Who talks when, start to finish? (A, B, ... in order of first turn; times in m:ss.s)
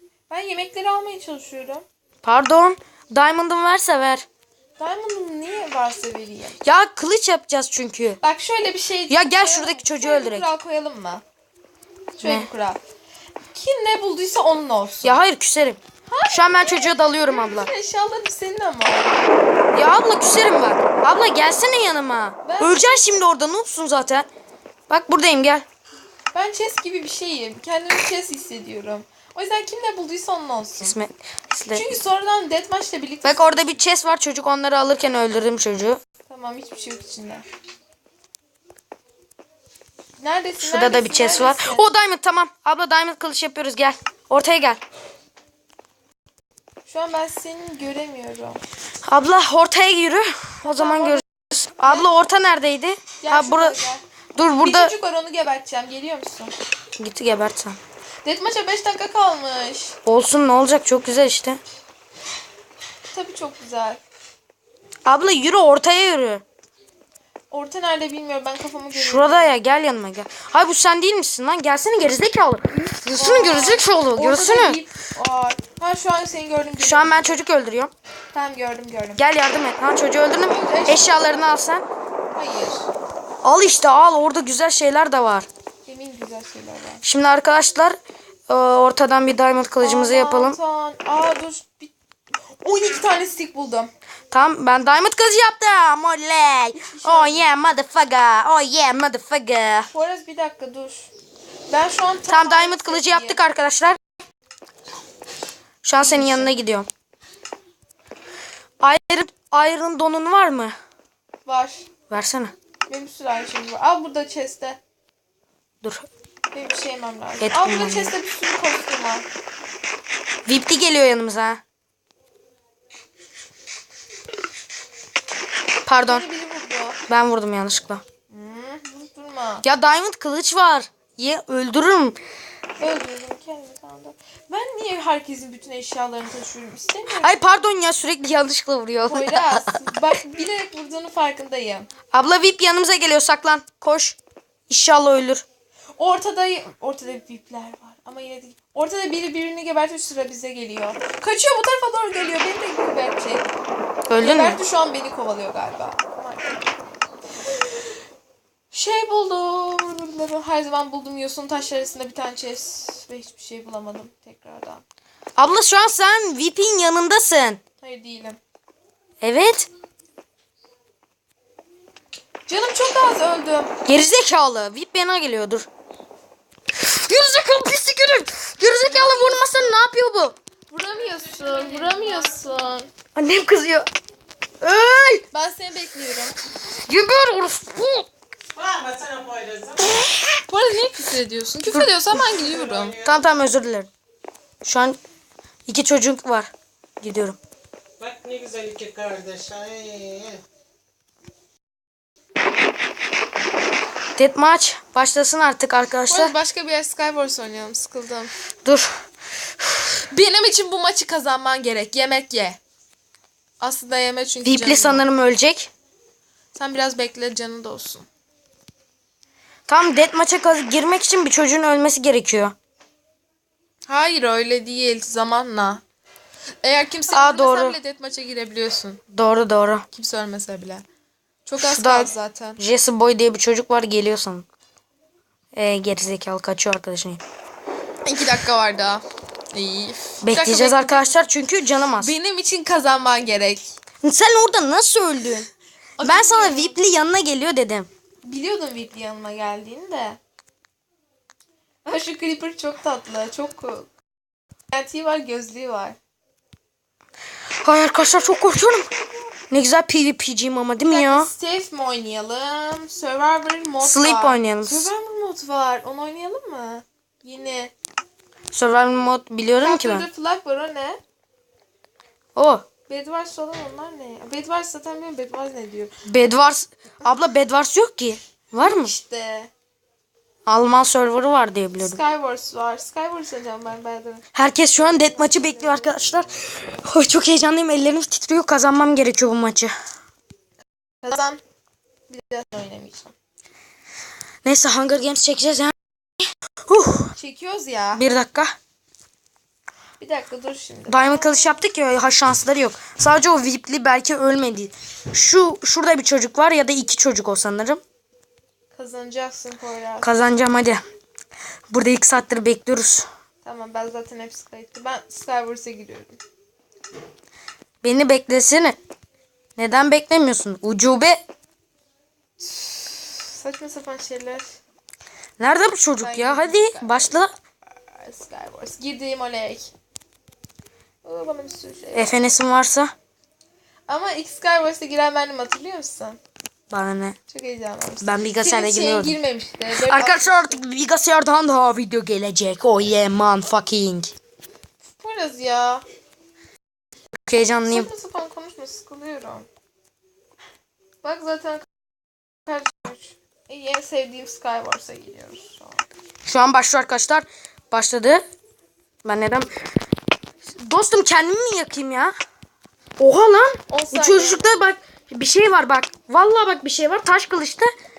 0:00.3-0:01.8 A
0:02.2-0:04.2 B
0:04.8-0:06.6 A
0:06.6-0:08.2 B
0:08.2-0:11.2 A
0:09.1-0:10.5 B
0:12.2-0:12.5 B
0:12.2-0:12.8 A
0:13.5-0:15.2 A
0:15.0-0:17.7 B
0:16.1-0:19.3 A
0:19.7-0:24.3 B
0:22.4-0:23.2 A
0:24.9-0:25.6 B
0:26.3-0:31.0 A
0:30.8-0:31.8 B
0:31.7-0:33.8 A
0:33.2-0:36.0 B
0:36.3-0:37.4 A
0:40.2-0:41.9 A
0:40.6-0:44.8 B
0:46.9-0:48.6 A
0:49.0-0:53.8 B
0:50.6-0:51.2 A
0:53.2-0:56.5 A
0:54.4-0:54.9 B
0:57.0-0:57.8 B
0:58.2-1:00.0 A
1:00.1-1:01.6 B
1:03.1-1:04.0 A
1:05.1-1:06.4 B
1:07.5-1:09.5 A
1:08.9-1:14.8 B
1:13.1-1:17.4 A
1:16.8-1:17.9 B
1:18.3-1:19.2 A
1:19.2-1:21.8 B
1:20.3-1:21.3 A
1:22.3-1:22.9 A
1:23.4-1:25.5 B
1:25.8-1:27.0 A
1:27.0-1:28.0 B
1:28.5-1:30.6 B
1:29.8-1:31.9 A
1:32.6-1:33.9 A
1:34.3-1:39.9 B
1:36.8-1:37.6 A
1:39.9-1:41.1 A
1:41.7-1:43.4 A
1:42.3-1:44.0 B
1:45.8-1:46.9 B
1:46.0-1:46.5 A
1:48.8-1:50.7 B
1:51.4-1:51.9 A
1:52.1-1:52.5 B
1:52.9-1:54.8 A
1:55.8-1:56.1 B
1:56.5-1:59.3 A
1:57.4-1:58.1 B
2:00.4-2:01.6 B
2:05.9-2:06.3 B
2:06.0-2:07.0 A
2:07.1-2:08.0 B
2:08.3-2:09.6 A
2:09.6-2:12.2 B
2:12.8-2:17.4 A
2:17.2-2:19.8 B
2:19.1-2:21.9 A
2:22.1-2:24.2 B
2:24.7-2:25.4 B
2:26.0-2:33.5 A
2:34.1-2:34.6 B
2:34.2-2:37.0 A
2:38.7-2:44.8 A
2:45.4-2:47.6 B
2:47.8-2:48.4 A
2:49.2-2:49.7 B
2:52.5-2:53.7 A
2:53.8-2:55.7 B
2:56.8-3:00.4 B
2:58.6-2:59.8 A
3:00.7-3:02.9 A
3:03.2-3:03.9 B
3:04.6-3:05.3 B
3:05.3-3:06.4 A
3:06.9-3:08.1 B
3:08.9-3:09.6 C
3:09.8-3:10.2 B
3:10.5-3:13.0 A
3:13.0-3:13.9 B
3:14.6-3:15.0 B
3:15.7-3:16.5 B
3:17.0-3:17.4 B
3:18.1-3:20.3 C
3:24.2-3:26.3 B
3:26.1-3:28.3 A
3:28.6-3:28.9 B
3:30.1-3:32.6 A
3:33.6-3:35.0 A
3:34.4-3:35.7 B
3:36.6-3:38.1 A
3:39.7-3:42.6 B
3:43.9-3:45.8 A
3:46.6-3:49.0 A
3:47.1-3:47.8 B
3:49.1-3:49.9 B
3:49.9-3:50.8 A
3:51.4-3:52.6 A
3:51.6-3:54.5 B
3:55.5-3:57.2 B
3:58.1-4:01.2 A
4:00.2-4:02.1 B
4:02.0-4:03.8 A
4:04.0-4:05.5 B
4:06.0-4:06.8 A
4:06.0-4:07.9 B
4:08.2-4:10.2 A
4:11.8-4:13.9 A
4:14.7-4:16.0 A
4:17.6-4:18.9 B
4:19.5-4:21.3 B
4:20.9-4:27.7 A
4:23.8-4:24.9 B
4:28.5-4:30.1 B
4:29.6-4:31.0 A
4:32.4-4:32.7 B
4:32.9-4:35.9 A
4:36.0-4:38.9 B
4:38.6-4:39.5 A
4:40.5-4:42.0 B
4:41.8-4:46.8 A
4:44.4-4:49.7 B
4:51.0-4:51.4 A
4:52.1-4:53.1 A
4:54.4-4:55.8 B
4:56.7-4:57.1 B
4:57.2-4:58.0 A
4:57.9-4:58.6 B
5:00.0-5:01.5 A
5:00.9-5:07.8 B
5:08.7-5:10.2 A
5:10.0-5:10.8 B
5:11.7-5:13.1 B
5:13.4-5:16.2 A
5:17.8-5:18.8 B
5:19.6-5:21.2 B
5:22.4-5:24.5 A
5:25.4-5:27.3 B
5:26.0-5:27.2 A
5:27.9-5:29.7 A
5:31.0-5:32.3 A
5:31.9-5:32.9 B
5:33.9-5:36.2 A
5:36.7-5:37.2 B
5:37.3-5:40.6 A
5:38.0-5:39.2 B
5:39.8-5:44.1 B
5:45.0-5:45.8 A
5:47.3-5:47.9 B
5:47.7-5:49.5 A
5:51.0-5:51.7 A
5:52.4-5:55.8 A
5:56.2-5:58.2 B
5:59.0-5:59.5 B
6:00.6-6:02.1 B
6:03.0-6:07.7 B
6:03.7-6:04.5 A